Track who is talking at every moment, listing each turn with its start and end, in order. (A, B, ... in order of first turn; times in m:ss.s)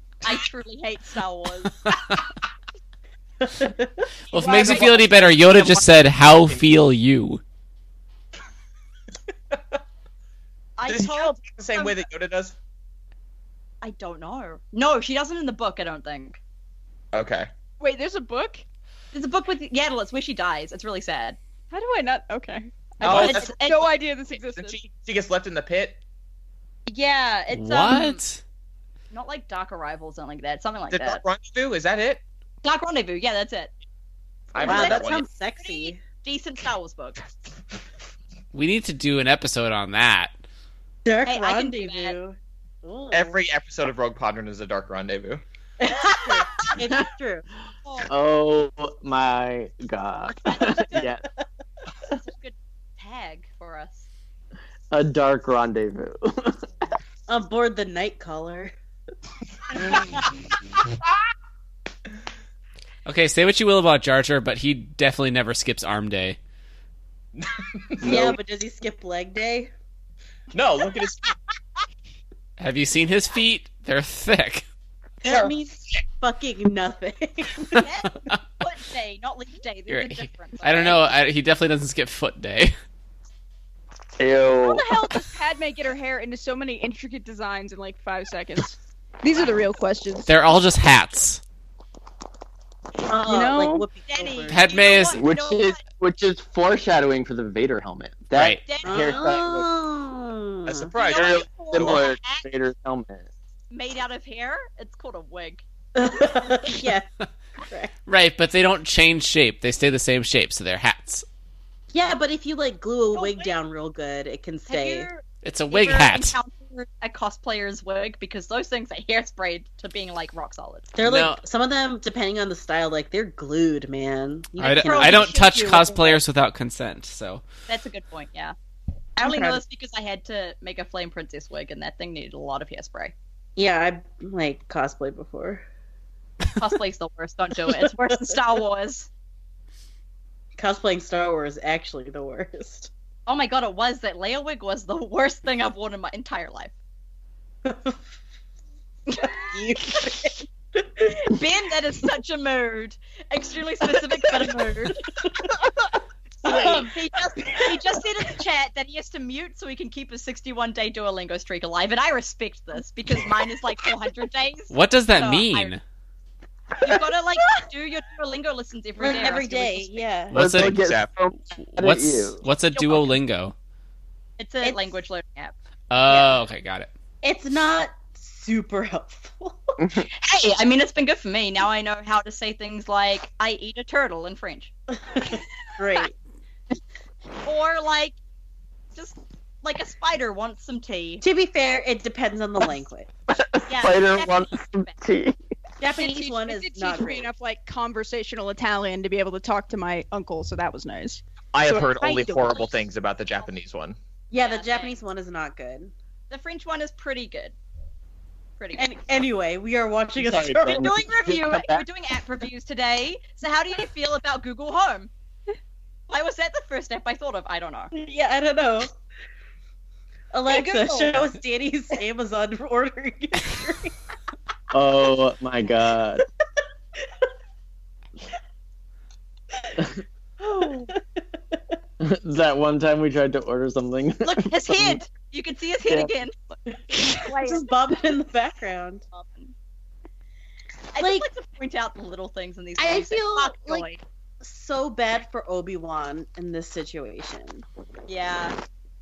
0:00.2-0:01.8 A
0:01.9-0:02.2 B
0:03.4-0:04.9 C
0:04.3-0:06.7 D
0:04.3-0:07.4 B
0:04.6-0:04.9 A
0:10.8-0:12.0 A
0:10.9-0:12.5 D
0:13.8-0:16.4 A
0:17.1-0:17.5 D
0:17.8-0:18.6 E
0:19.1-0:21.4 A
0:21.7-0:24.8 E
0:23.0-0:26.0 D
0:23.0-0:23.4 B
0:23.1-0:23.6 A
0:26.9-0:28.2 A
0:27.5-0:28.4 B
0:29.1-0:31.2 A
0:30.9-0:32.2 D
0:32.6-0:33.7 A
0:34.5-0:35.2 D
0:34.6-0:37.2 A
0:34.6-0:36.0 C
0:38.5-0:40.3 B
0:41.0-0:43.4 C
0:41.2-0:42.2 A
0:43.1-0:45.4 D
0:45.8-0:47.4 C
0:48.1-0:51.2 F
0:50.4-0:51.1 A
0:52.2-0:54.1 A
0:54.9-0:56.8 F
0:57.3-0:58.7 C
1:03.0-1:06.4 B
1:07.4-1:08.4 D
1:08.0-1:09.7 C
1:08.0-1:08.4 F
1:10.5-1:11.3 D
1:12.6-1:14.6 B
1:15.2-1:15.5 D
1:15.2-1:17.9 C
1:17.7-1:21.1 A
1:19.9-1:22.7 B
1:24.2-1:25.0 F
1:24.6-1:30.6 E
1:30.3-1:31.4 B
1:33.1-1:34.6 C
1:33.2-1:33.8 E
1:34.1-1:35.8 A
1:34.5-1:35.2 B
1:35.1-1:39.7 F
1:38.3-1:38.6 B
1:38.6-1:39.2 A
1:38.8-1:40.9 C
1:40.7-1:42.0 D
1:41.0-1:42.4 A
1:41.1-1:43.3 F
1:43.7-1:45.6 A
1:46.0-1:47.1 C
1:47.6-1:47.9 C
1:48.1-1:51.2 B
1:51.9-1:55.1 C
1:53.1-1:53.5 A
1:54.7-2:00.9 A
1:55.4-1:56.4 B
2:01.0-2:06.1 C
2:01.0-2:01.4 B
2:04.6-2:06.2 A
2:04.6-2:07.4 B
2:07.7-2:08.5 A
2:09.2-2:13.1 A
2:09.2-2:09.6 C
2:13.6-2:15.6 C
2:16.6-2:19.1 A
2:20.6-2:22.9 C
2:23.3-2:26.7 A
2:27.6-2:28.0 C
2:29.1-2:29.4 A
2:29.2-2:30.4 C
2:31.2-2:35.0 A
2:34.2-2:34.9 C
2:36.4-2:36.9 C
2:36.4-2:45.7 A
2:36.4-2:36.8 F
2:44.7-2:45.8 B
2:46.8-2:50.0 A
2:49.0-2:50.4 C
2:50.3-2:50.9 B
2:50.3-2:52.4 F
2:50.5-2:51.1 D
2:51.7-2:53.5 B
2:52.7-2:53.1 A
2:54.4-2:55.5 A
2:54.6-2:54.9 C
2:55.9-2:56.9 B
2:56.1-2:56.3 C
2:57.2-2:59.6 C
2:59.8-3:00.1 F
3:00.1-3:04.7 A
3:04.9-3:06.1 C
3:07.4-3:08.2 A
3:08.9-3:11.2 A
3:11.2-3:13.1 C
3:13.3-3:15.4 F
3:13.7-3:14.9 A
3:15.8-3:17.3 C
3:16.0-3:22.4 E
3:21.5-3:24.0 D
3:24.3-3:25.9 C
3:24.3-3:25.0 A
3:26.3-3:27.5 A
3:28.6-3:28.9 A
3:28.7-3:30.9 C
3:30.2-3:31.8 F
3:30.6-3:35.1 A
3:36.1-3:37.9 A
3:37.9-3:38.9 C
3:40.3-3:43.9 C
3:40.5-3:41.2 A
3:44.7-3:46.2 F
3:50.4-3:51.0 C
3:52.0-3:55.0 F
3:54.2-3:56.3 A
3:56.9-3:59.0 C
3:57.1-3:57.7 A
3:59.1-3:59.5 A
4:00.9-4:04.0 A
4:01.0-4:01.3 C
4:02.8-4:03.9 C
4:04.4-4:07.6 C
4:08.1-4:08.6 A